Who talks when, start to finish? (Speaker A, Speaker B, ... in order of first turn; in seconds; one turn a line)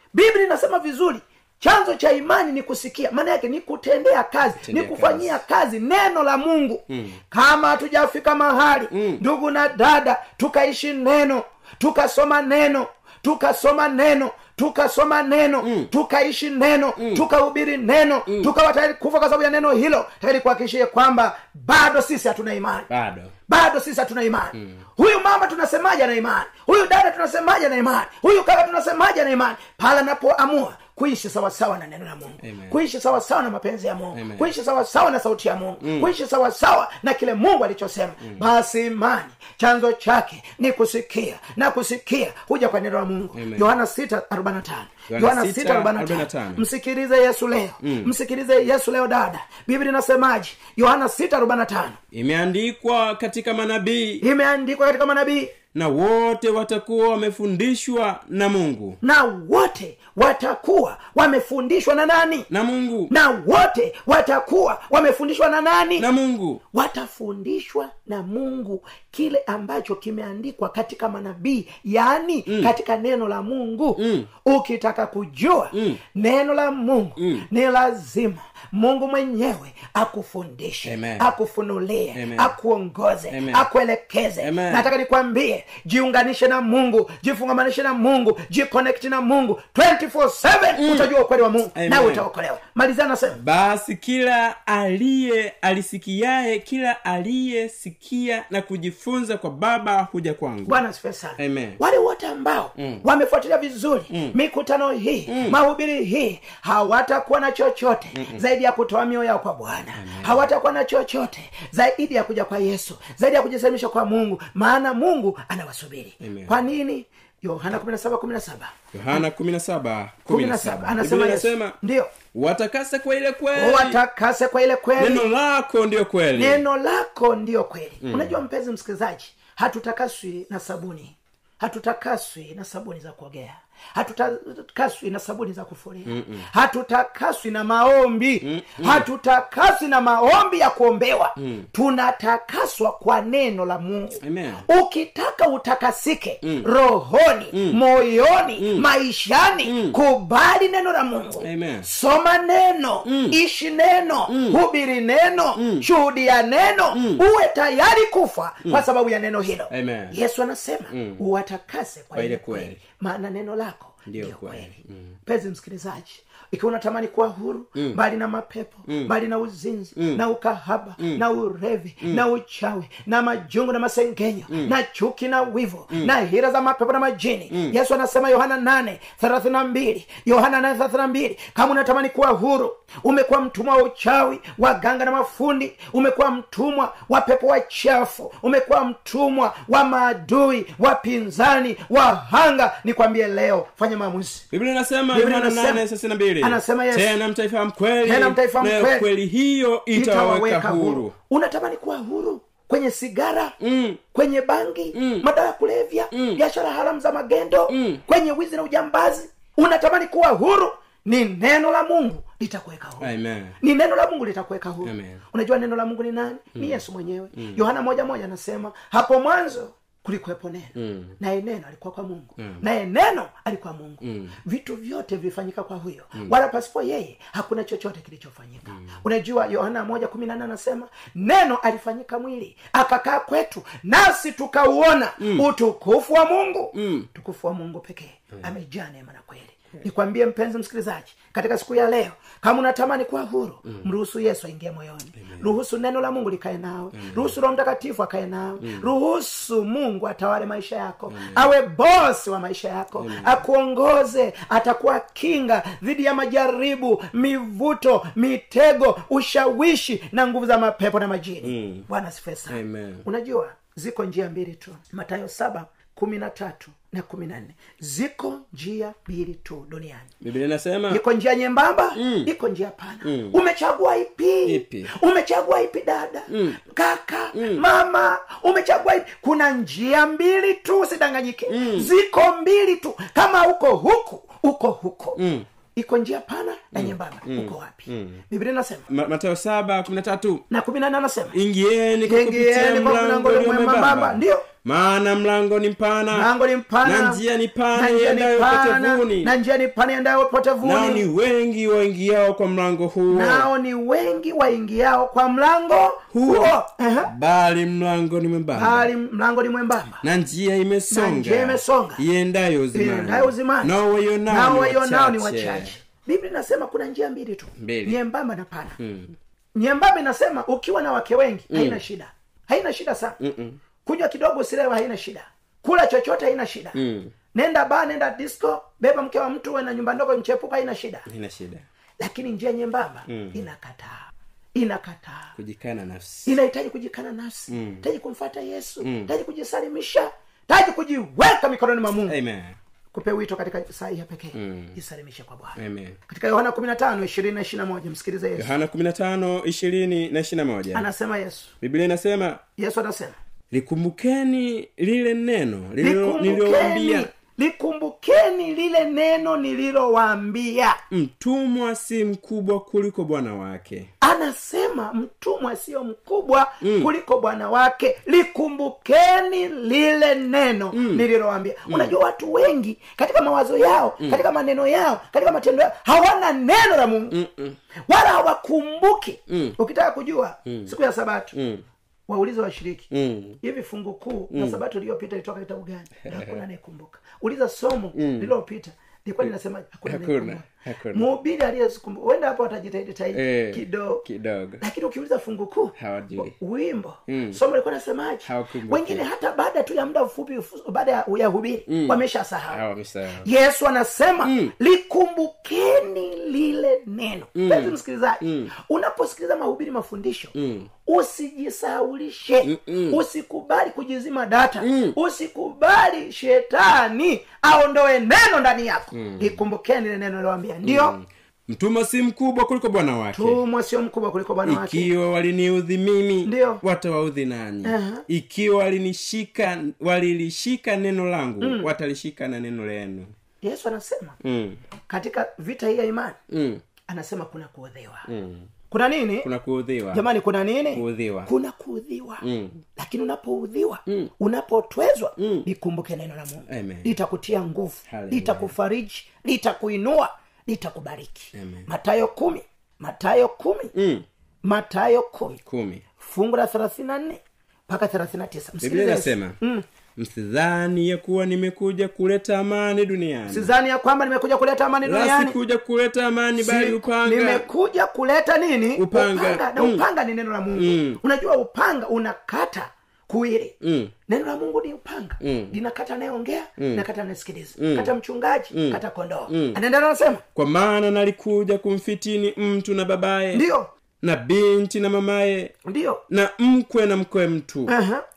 Speaker A: 0.1-22.9
Speaker B: 4.6-5.4
Speaker B: 6.9-7.2
Speaker B: 8.9-9.2
Speaker B: 15.6-15.9
Speaker B: 17.0-17.2
Speaker B: 22.9-23.3
Speaker A: 23.5-52.0
Speaker B: 24.6-24.8
Speaker B: 32.4-32.8
Speaker B: 34.1-34.5
Speaker B: 35.8-36.1
Speaker B: 43.3-43.7
Speaker B: 45.1-46.6
Speaker B: 47.8-48.1
Speaker B: 52.1-54.2
Speaker A: 54.2-55.5
Speaker B: 55.7-59.0
Speaker A: 59.0-62.5
Speaker B: 62.5-63.1
Speaker A: 63.1-66.1
Speaker B: 66.0-66.6
Speaker A: 66.7-93.4
Speaker B: 72.5-72.7
Speaker B: 74.0-74.3
Speaker B: 75.7-76.0
Speaker B: 77.2-77.5
Speaker B: 80.8-81.2
Speaker B: 82.1-82.5
Speaker B: 83.3-83.6
Speaker B: 84.4-84.9
Speaker B: 90.8-91.1
Speaker B: 91.7-92.2
Speaker B: 93.4-100.8
Speaker A: 100.7-119.2
Speaker B: 101.4-101.8
Speaker B: 102.8-103.0
Speaker B: 104.1-104.3
Speaker B: 105.3-105.6
Speaker B: 108.1-108.4
Speaker B: 110.0-110.5
Speaker B: 116.2-116.5
Speaker B: 118.9-121.8
Speaker A: 120.3-122.1
Speaker B: 122.3-124.0
Speaker A: 123.5-125.2
Speaker B: 125.0-126.6
Speaker A: 126.3-164.7
Speaker B: 128.0-128.4
Speaker B: 136.1-136.4
Speaker B: 138.4-139.1
Speaker B: 141.4-141.7
Speaker B: 144.2-144.6
Speaker B: 147.5-147.8
Speaker B: 148.6-148.8
Speaker B: 149.7-150.0
Speaker B: 151.4-151.9
Speaker B: 153.1-153.4
Speaker B: 154.3-154.6
Speaker B: 155.6-155.9
Speaker B: 156.9-157.2
Speaker B: 159.7-160.1
Speaker B: 160.9-161.2
Speaker B: 162.1-162.8
Speaker B: 164.1-165.1
Speaker A: 165.2-194.4
Speaker B: 168.9-169.1
Speaker B: 170.0-170.2
Speaker B: 177.5-177.8
Speaker B: 194.5-201.1
Speaker A: 195.1-195.8
Speaker A: 196.4-197.2
Speaker A: 198.0-199.1
Speaker A: 199.9-203.5
Speaker B: 203.6-204.0
Speaker A: 204.1-213.1
Speaker B: 204.9-205.2
Speaker B: 206.1-206.4
Speaker B: 207.7-208.0
Speaker B: 213.0-213.6
Speaker A: 213.6-270.1
Speaker B: 214.8-215.2
Speaker B: 216.6-216.8
Speaker B: 217.3-217.6
Speaker B: 220.8-221.1
Speaker B: 224.0-224.3
Speaker B: 235.2-235.5
Speaker B: 236.7-237.1
Speaker B: 245.2-245.5
Speaker B: 246.9-247.3
Speaker B: 248.6-248.9
Speaker B: 251.1-251.5
Speaker B: 253.0-253.4
Speaker B: 261.4-261.9
Speaker B: 262.5-263.0
Speaker B: 270.2-271.0
Speaker A: 270.9-285.2
Speaker B: 271.9-272.3
Speaker B: 273.0-273.4
Speaker B: 274.4-274.9
Speaker B: 276.3-276.6
Speaker B: 277.3-277.6
Speaker B: 281.5-281.9
Speaker B: 285.2-285.4
Speaker A: 285.8-288.9
Speaker B: 286.7-288.2
Speaker B: 288.9-290.4
Speaker A: 290.5-291.4
Speaker B: 291.3-296.3
Speaker A: 292.1-294.4
Speaker A: 296.1-297.2
Speaker B: 296.8-299.3
Speaker A: 297.7-301.0
Speaker B: 300.6-303.5
Speaker A: 303.1-307.1
Speaker B: 306.1-308.9
Speaker A: 308.5-310.0
Speaker B: 310.0-315.7
Speaker A: 310.9-312.0
Speaker A: 312.7-313.8
Speaker A: 314.3-318.8
Speaker B: 317.6-318.0
Speaker B: 318.8-319.1
Speaker A: 319.5-323.2
Speaker B: 321.5-321.8
Speaker B: 323.2-323.6
Speaker A: 323.8-326.8
Speaker B: 326.7-327.1
Speaker A: 327.3-331.1
Speaker B: 331.1-331.6
Speaker A: 332.0-335.4
Speaker B: 333.1-333.4
Speaker B: 335.4-336.3
Speaker A: 336.2-342.1
Speaker B: 337.5-337.8
Speaker B: 338.8-339.1
Speaker B: 342.1-342.6
Speaker A: 342.9-348.5
Speaker B: 344.3-344.8
Speaker B: 345.6-346.0
Speaker B: 348.4-350.9
Speaker A: 350.7-351.5
Speaker B: 351.6-352.4
Speaker A: 352.6-353.1
Speaker B: 353.5-357.1
Speaker A: 355.8-360.8
Speaker B: 360.9-363.9
Speaker A: 364.0-377.1
Speaker B: 366.6-366.9
Speaker B: 370.7-371.0
Speaker B: 377.1-377.6
Speaker A: 377.9-381.3
Speaker B: 379.3-379.6
Speaker B: 380.5-380.7
Speaker B: 381.3-381.6
Speaker A: 382.1-382.9
Speaker B: 382.9-383.4
Speaker A: 383.4-394.0
Speaker B: 384.3-384.6
Speaker B: 386.1-386.4
Speaker B: 387.9-388.3
Speaker B: 389.9-391.1
Speaker B: 393.1-394.6
Speaker A: 394.6-402.6
Speaker B: 395.8-396.3
Speaker B: 397.1-397.4
Speaker B: 398.2-399.0
Speaker B: 401.7-403.3
Speaker A: 403.2-410.3
Speaker B: 404.2-404.5
Speaker B: 407.4-408.5
Speaker B: 410.3-410.7
Speaker A: 410.9-420.9
Speaker B: 412.4-413.0
Speaker B: 414.6-414.9
Speaker B: 418.9-419.4
Speaker B: 420.6-423.4
Speaker A: 423.1-424.9
Speaker B: 424.4-433.1
Speaker A: 426.2-426.6
Speaker A: 427.6-428.0
Speaker A: 431.4-431.7
Speaker A: 433.4-434.2
Speaker B: 434.2-434.6
Speaker A: 434.9-436.2
Speaker B: 436.3-436.6
Speaker A: 436.9-438.1
Speaker B: 438.1-438.5
Speaker A: 438.7-439.3
Speaker B: 439.2-440.0
Speaker A: 439.9-453.7
Speaker B: 440.7-441.3
Speaker B: 442.2-442.6
Speaker B: 445.2-445.4
Speaker B: 446.5-446.9
Speaker B: 447.9-448.5
Speaker B: 451.3-451.7
Speaker B: 453.7-454.0
Speaker A: 454.4-455.4
Speaker B: 455.4-455.8
Speaker A: 456.0-459.6
Speaker B: 458.6-459.4
Speaker B: 459.9-463.5
Speaker A: 463.3-465.4
Speaker B: 464.8-467.4
Speaker A: 466.4-473.5
Speaker B: 468.8-469.8
Speaker B: 470.5-471.0
Speaker B: 473.6-473.9
Speaker A: 474.1-480.2
Speaker B: 475.2-475.5
Speaker B: 476.6-476.8
Speaker B: 477.6-477.9
Speaker B: 478.5-479.6
Speaker B: 480.3-483.4
Speaker A: 483.3-483.7
Speaker B: 484.0-485.6
Speaker A: 485.6-486.0
Speaker B: 486.1-487.7
Speaker A: 487.7-488.0